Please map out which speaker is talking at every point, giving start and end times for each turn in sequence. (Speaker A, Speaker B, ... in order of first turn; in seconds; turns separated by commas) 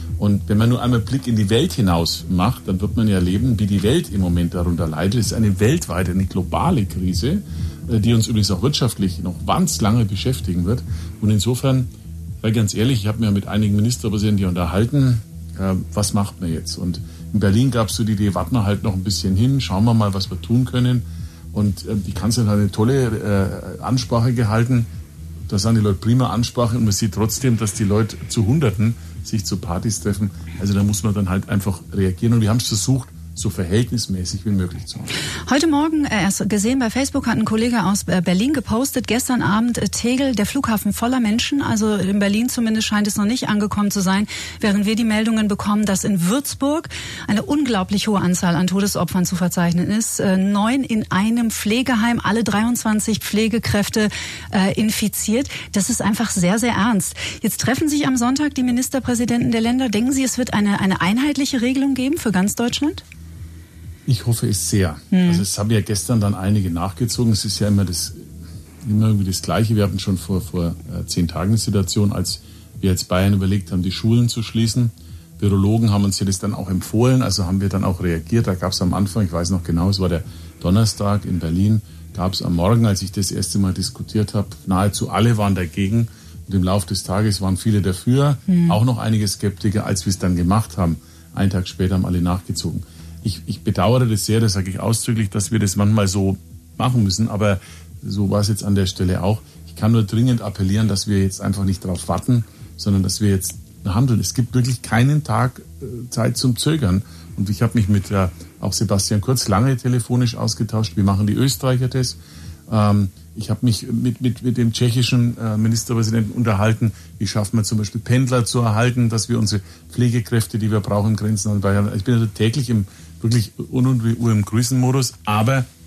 Speaker A: 0.2-11.9, Speaker A: 12.4-24.9, Speaker A: 25.5-35.1, Speaker B: 35.5-63.0, Speaker A: 64.0-68.3, Speaker B: 65.1-65.4, Speaker A: 68.8-125.7, Speaker B: 88.5-88.8